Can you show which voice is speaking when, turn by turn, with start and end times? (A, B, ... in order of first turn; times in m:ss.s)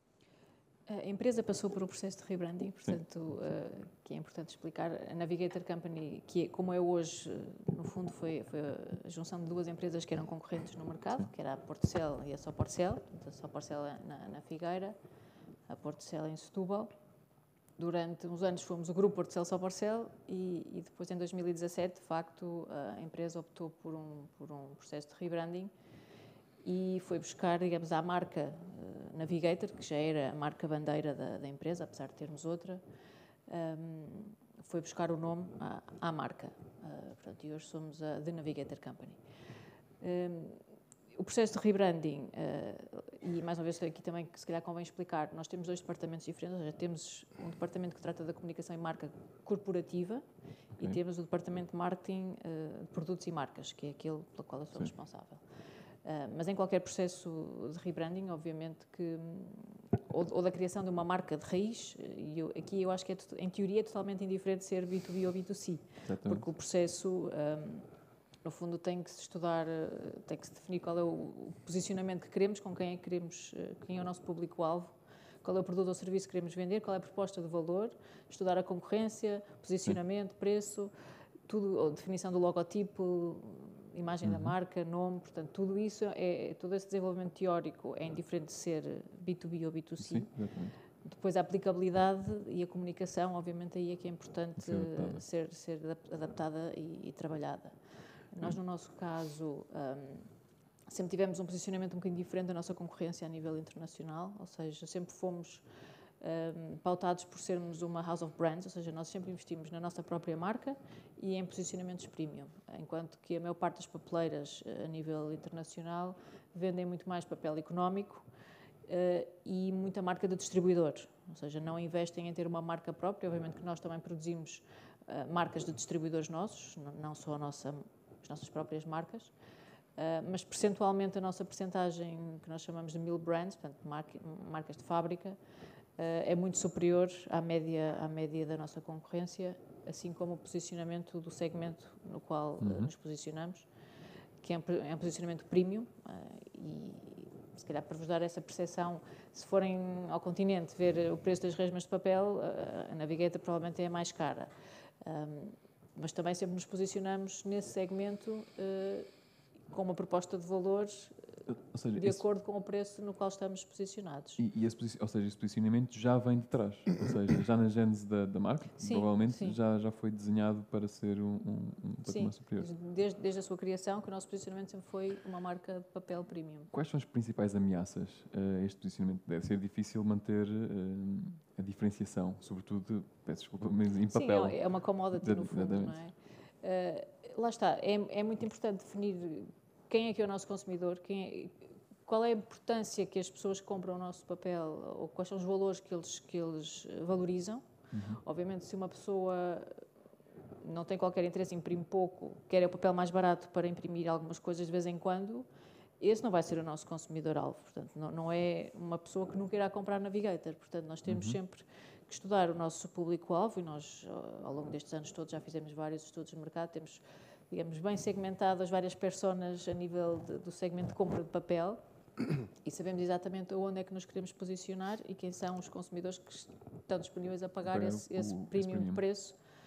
0:00.9-0:15.0 A
0:15.7-0:16.9 A
0:17.8-0:25.7 A
0:26.6-0:32.8 A
0:33.5-0:39.2 A
0:40.0-0:40.6 A
0:41.1-0:50.2 A
0:50.8-0:55.4 A
0:56.0-1:07.9 A
1:06.0-1:06.5 B
1:08.4-1:20.9 A
1:21.4-1:30.3 A
1:24.2-1:24.5 B
1:30.0-1:30.8 B
1:31.0-1:37.8 A
1:34.6-1:35.2 B
1:38.3-1:40.3 A
1:40.9-1:45.6 A
1:46.2-1:58.2 A
1:58.9-2:09.3 A
2:10.0-2:15.4 A
2:16.0-2:23.7 A
2:22.6-2:22.9 B
2:24.4-2:34.5 A
2:35.0-2:39.1 A
2:39.7-2:41.2 A
2:41.5-2:42.2 B
2:42.0-2:44.4 A
2:44.4-2:52.7 B
2:48.8-2:49.6 A
2:52.0-2:56.7 A
2:56.7-3:04.6 B
3:04.1-3:19.8 A
3:05.2-3:06.0 B
3:17.9-3:18.2 B
3:20.6-3:25.5 A
3:26.0-3:41.8 A
3:31.1-3:31.4 B
3:42.6-3:49.4 A
3:47.6-3:49.0 B